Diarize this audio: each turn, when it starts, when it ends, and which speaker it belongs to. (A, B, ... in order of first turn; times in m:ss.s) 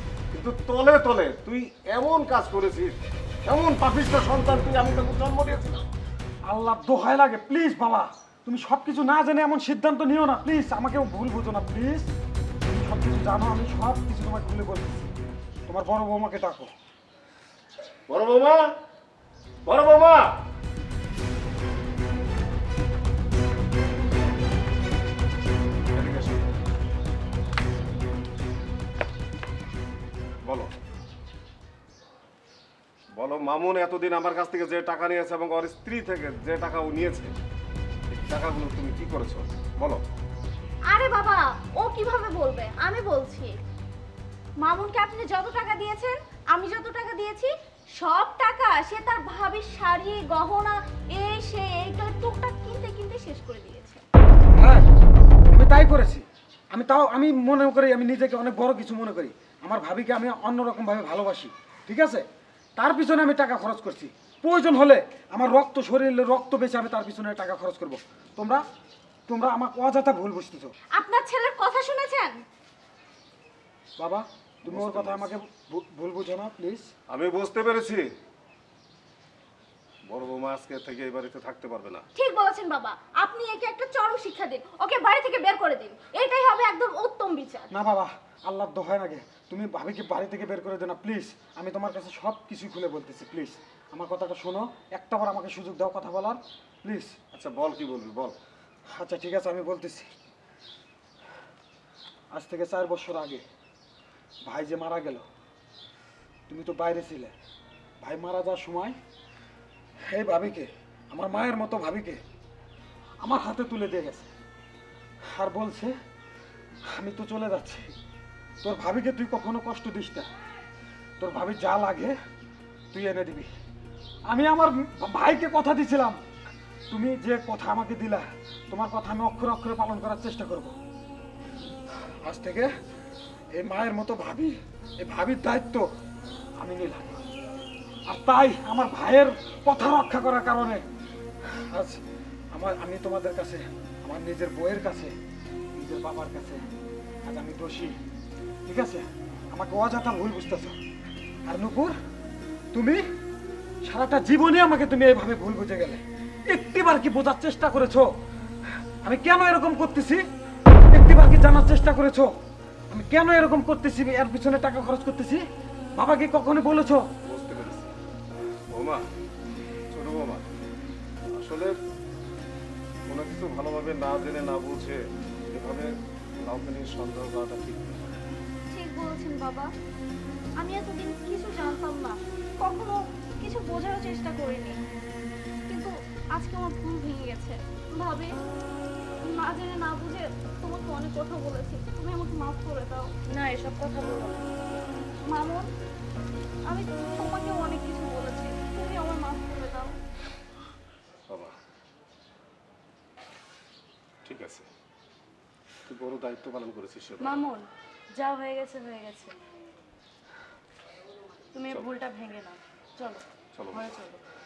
0:00.3-0:05.9 A
0:06.5-0:12.1 B
0:12.7-0:15.1 B
0:15.7-0:16.7 B
0:18.1-0:18.6 A
0:19.6-0:20.3 A
0:25.9-0:26.4 A
0:30.4-0:30.7 A
0:33.2-0:37.3 A
0:38.1-0:40.0 A
0:40.9-0:43.6 C
0:44.6-0:54.0 C
0:54.6-0:54.9 B
0:55.5-1:02.2 B
1:02.8-1:08.6 B
1:09.3-1:10.7 B
1:11.0-1:12.4 C
1:14.0-1:16.9 B
1:14.6-1:15.3 A
1:17.1-1:18.0 A
1:20.1-1:22.0 A
1:22.2-1:27.7 C
1:27.7-1:37.2 B
1:37.3-1:38.4 A
1:38.9-1:40.1 B
1:42.3-1:43.4 B
1:44.4-1:45.2 B
1:46.5-1:47.3 B
1:48.0-1:49.0 B
1:50.1-1:52.2 B
1:53.2-1:54.3 B
1:55.3-1:56.0 B
1:56.9-1:57.9 B
1:58.6-2:00.3 B
2:01.2-2:02.2 B
2:02.9-2:03.5 B
2:04.3-2:06.2 B
2:06.9-2:10.8 B
2:12.2-2:12.7 B
2:13.6-2:15.9 B
2:16.6-2:17.3 B
2:18.1-2:20.8 B
2:21.5-2:22.0 B
2:22.5-2:25.2 B
2:25.8-2:26.7 B
2:27.3-2:28.0 B
2:28.6-2:30.8 B
2:31.5-2:32.0 B
2:32.7-2:33.0 B
2:33.8-2:38.1 B
2:39.0-2:40.2 B
2:40.9-2:42.3 B
2:42.9-2:45.4 B
2:46.0-2:47.1 B
2:47.2-2:47.9 A
2:48.7-2:49.0 A
2:49.9-2:50.4 A
2:51.4-2:51.8 A
2:53.1-2:55.0 A
2:55.5-2:55.9 A
2:56.4-2:58.1 A
2:58.7-2:59.7 C
3:00.6-3:04.8 C
3:05.7-3:08.3 C
3:09.2-3:13.1 C
3:13.3-3:14.4 D
3:15.3-3:15.7 C
3:16.7-3:19.9 C
3:24.2-3:24.7 A
3:25.9-3:27.4 A
3:27.2-3:29.4 D
3:31.5-3:34.2 D
3:33.5-3:33.8 A